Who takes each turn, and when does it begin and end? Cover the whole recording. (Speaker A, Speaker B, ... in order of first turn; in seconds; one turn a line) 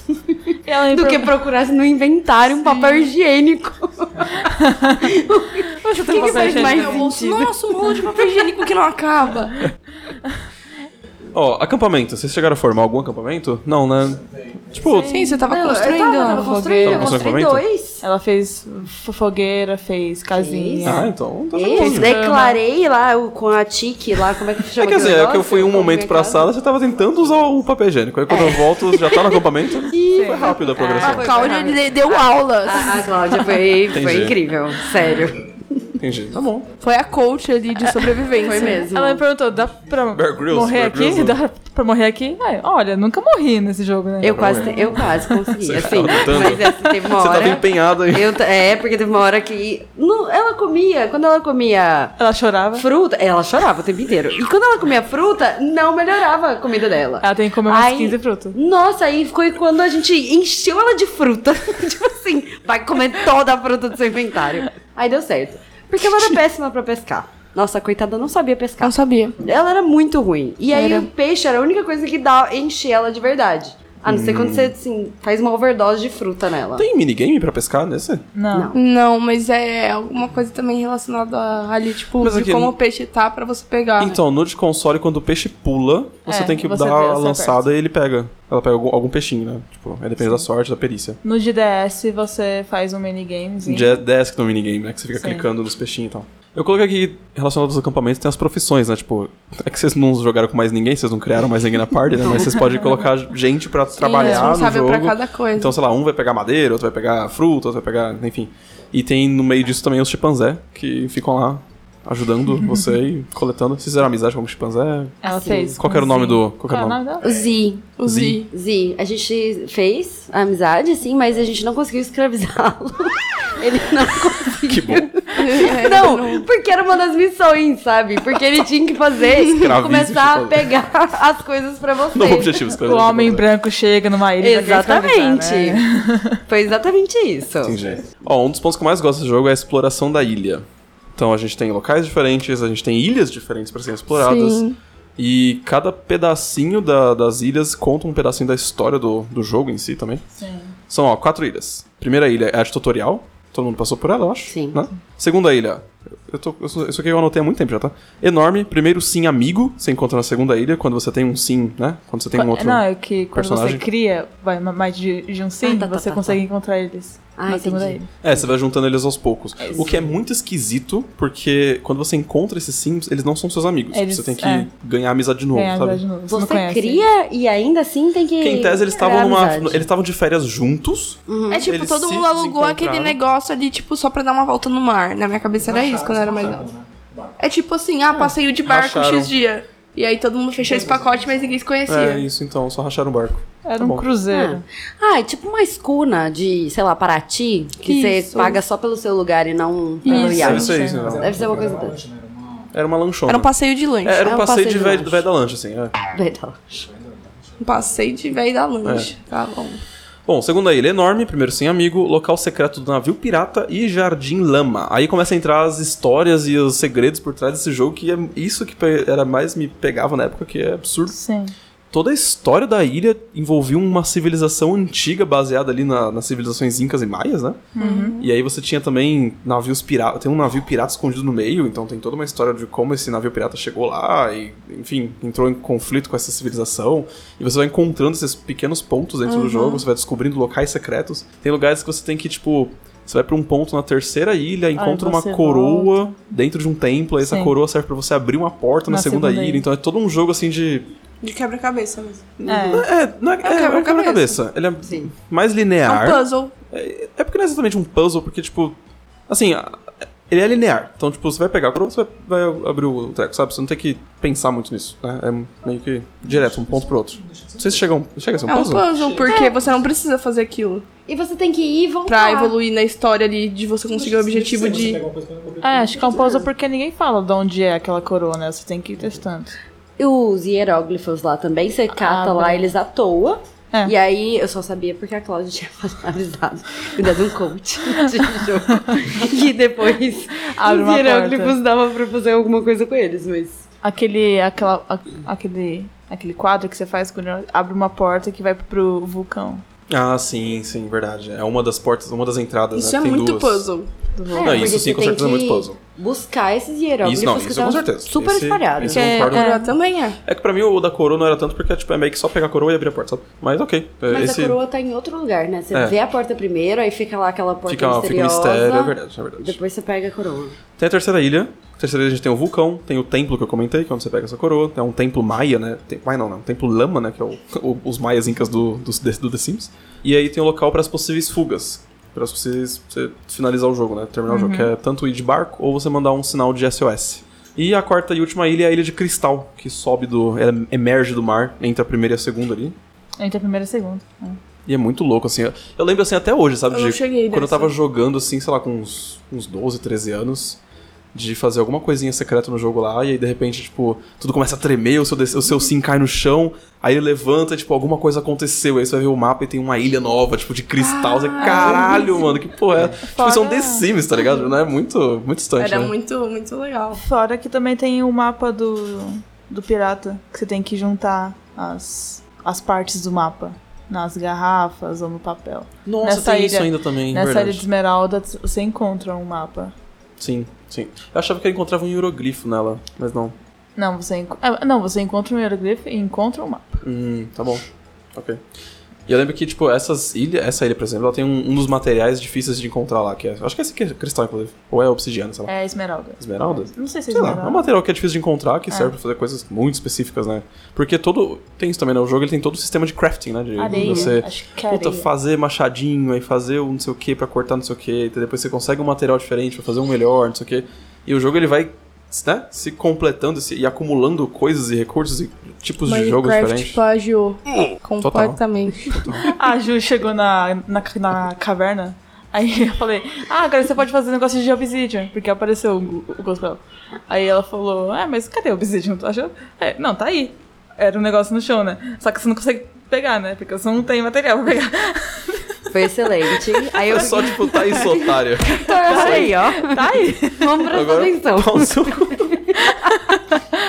Speaker A: 0.3-4.4
Speaker B: 0.7-1.3
Speaker B: 2.7-3.0
Speaker B: 4.4-5.0
Speaker A: 5.0-8.1
Speaker B: 5.9-7.2
Speaker C: 5.9-9.6
Speaker D: 11.3-15.2
Speaker B: 14.9-15.4
Speaker C: 15.1-16.8
Speaker A: 15.4-18.0
Speaker B: 16.2-17.0
Speaker D: 16.8-17.6
Speaker B: 18.0-21.1
Speaker A: 20.3-26.5
Speaker D: 20.8-22.1
Speaker B: 21.8-22.6
Speaker D: 24.8-31.5
Speaker A: 28.3-29.4
Speaker B: 30.1-31.6
Speaker A: 30.2-35.9
Speaker C: 31.0-33.5
Speaker D: 33.9-34.4
Speaker D: 36.0-36.7
Speaker C: 36.8-38.9
Speaker A: 38.4-39.2
Speaker B: 38.6-45.4
Speaker D: 40.1-41.4
Speaker A: 44.2-52.2
Speaker D: 44.3-45.0
Speaker D: 45.6-48.4
Speaker B: 46.3-46.9
Speaker B: 52.2-52.9
Speaker A: 52.8-76.9
Speaker B: 57.2-58.6
Speaker C: 68.8-69.4
Speaker C: 70.7-71.1
Speaker D: 74.1-74.8
Speaker D: 76.8-78.3
Speaker B: 78.3-78.7
Speaker C: 78.7-84.2
Speaker D: 82.2-82.8
Speaker D: 84.0-91.2
Speaker B: 86.3-87.6
Speaker B: 91.2-94.0
Speaker D: 93.6-115.2
Speaker B: 95.2-95.5
Speaker B: 102.6-102.9
Speaker C: 104.0-105.7
Speaker B: 104.2-104.5
Speaker B: 115.2-117.2
Speaker A: 115.2-115.8
Speaker D: 115.8-117.0
Speaker A: 117.2-117.9
Speaker C: 118.0-118.5
Speaker D: 118.0-118.5
Speaker A: 118.5-132.6
Speaker D: 124.7-125.1
Speaker C: 125.3-126.5
Speaker D: 129.6-130.8
Speaker D: 132.1-133.5
Speaker B: 132.8-136.4
Speaker A: 134.4-135.8
Speaker A: 136.5-137.8
Speaker D: 137.6-144.7
Speaker C: 144.1-144.8
Speaker D: 145.2-150.2
Speaker B: 150.4-150.8
Speaker D: 150.9-163.8
Speaker A: 154.5-154.8
Speaker B: 162.3-168.1
Speaker A: 165.6-166.4
Speaker A: 167.4-168.4
Speaker D: 168.2-176.0
Speaker B: 169.6-169.9
Speaker B: 173.9-174.7
Speaker B: 175.5-177.1
Speaker A: 176.3-179.9
Speaker D: 178.4-183.2
Speaker A: 181.3-181.7
Speaker C: 181.5-186.7
Speaker E: 185.6-187.3
Speaker C: 187.4-192.2
Speaker D: 188.7-189.3
Speaker E: 190.6-191.5
Speaker D: 191.9-194.1
Speaker B: 193.7-194.6
Speaker A: 194.3-202.0
Speaker C: 197.8-198.6
Speaker B: 200.1-201.1
Speaker C: 200.1-200.6
Speaker D: 200.2-201.6
Speaker E: 200.8-202.7
Speaker D: 202.7-205.9
Speaker C: 203.3-204.2
Speaker A: 204.2-205.2
Speaker A: 206.1-206.9
Speaker E: 206.8-207.8
Speaker C: 207.6-209.8
Speaker D: 208.8-209.1
Speaker D: 210.3-221.2
Speaker B: 221.1-221.5
Speaker D: 221.9-250.9
Speaker B: 227.8-228.2
Speaker C: 227.8-228.2
Speaker C: 239.3-239.8
Speaker B: 244.8-246.2
Speaker B: 247.2-247.6
Speaker B: 248.9-249.7
Speaker C: 251.2-252.3
Speaker D: 252.4-258.8
Speaker B: 252.5-252.9
Speaker C: 253.4-254.4
Speaker A: 254.8-255.1
Speaker C: 255.8-256.5
Speaker D: 259.3-268.9
Speaker E: 266.2-267.9
Speaker C: 268.5-270.9
Speaker E: 268.9-269.7
Speaker A: 271.1-272.6
Speaker C: 272.1-275.0
Speaker E: 273.9-276.4
Speaker B: 275.6-279.6
Speaker A: 280.0-293.6
Speaker B: 281.9-282.7
Speaker B: 290.6-291.6
Speaker B: 293.8-299.6
Speaker D: 299.9-303.7
Speaker C: 302.7-303.9
Speaker B: 304.2-304.8
Speaker A: 304.3-309.1
Speaker D: 304.4-305.8
Speaker D: 307.0-309.6
Speaker B: 308.9-309.7
Speaker C: 309.2-310.2
Speaker D: 310.2-314.6
Speaker A: 314.1-320.6
Speaker D: 315.7-316.0
Speaker D: 317.7-319.6
Speaker D: 320.8-342.8
Speaker B: 334.3-334.7
Speaker B: 343.2-344.4
Speaker D: 344.7-350.6
Speaker C: 346.7-347.7
Speaker D: 351.1-365.9
Speaker C: 360.8-362.4
Speaker B: 361.4-362.1
Speaker B: 363.0-363.9
Speaker C: 365.6-367.0
Speaker B: 367.0-379.7
Speaker D: 375.9-377.6
Speaker D: 380.2-383.4
Speaker B: 383.8-386.8
Speaker D: 386.8-388.4
Speaker D: 389.1-395.5
Speaker B: 395.5-397.7
Speaker D: 396.2-416.8
Speaker B: 403.6-405.1
Speaker A: 403.7-404.1
Speaker C: 415.9-419.1
Speaker D: 418.0-419.2
Speaker B: 419.3-435.4
Speaker A: 435.7-442.7
Speaker D: 436.9-439.3
Speaker B: 437.0-437.9
Speaker B: 438.8-440.5
Speaker D: 440.7-442.4
Speaker B: 443.1-443.4